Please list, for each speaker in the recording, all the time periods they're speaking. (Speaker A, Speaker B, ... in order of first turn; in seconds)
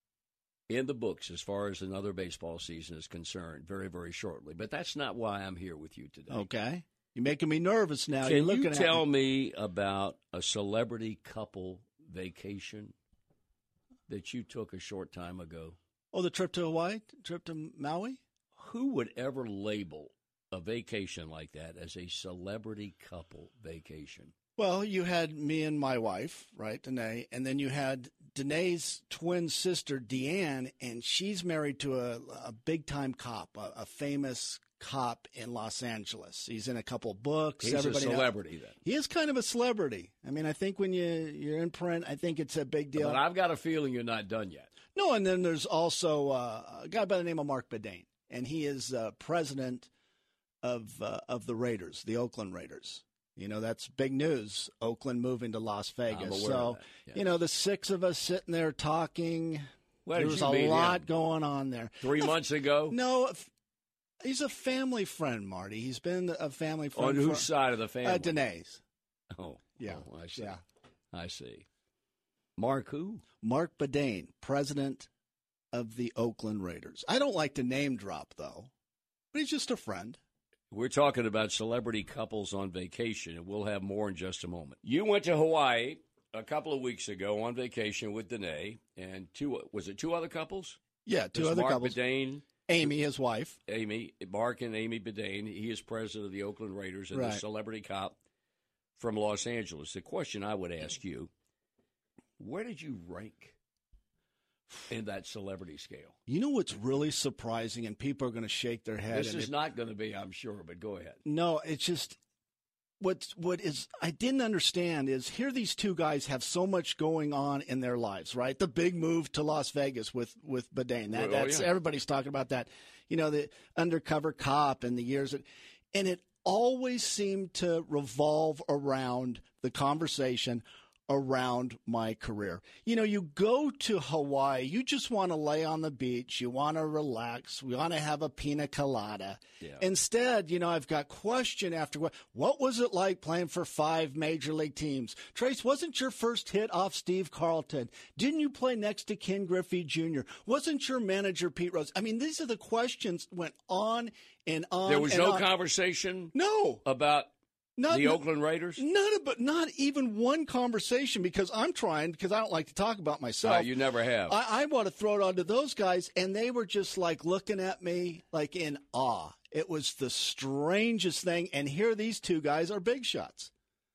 Speaker A: 0.7-6.5, 8.2-13.0, 14.1-15.8, 18.6-24.3, 37.6-38.8, 43.0-44.7, 56.1-57.2, 60.1-61.1, 62.0-63.0, 67.0-68.4, 69.3-70.6, 71.1-71.7, 72.6-73.2, 80.7-90.8, 91.3-92.5, 93.7-98.2, 99.0-101.3, 102.4-103.6, 104.9-106.2, 109.1-111.2, 121.1-121.7, 154.9-157.3, 157.9-158.8, 163.4-164.4
Speaker B: 6.3-9.1, 16.1-18.2, 24.6-43.2, 45.0-49.9, 50.6-62.4, 62.9-63.5, 64.2-67.5, 68.0-68.8, 69.8-70.6, 73.4-75.1, 75.7-78.7, 79.3-80.2, 91.0-92.0, 92.7-93.6, 97.1-97.4, 106.3-109.5, 111.2-112.2, 113.0-155.5, 156.3-156.8, 157.8-158.2, 158.8-173.5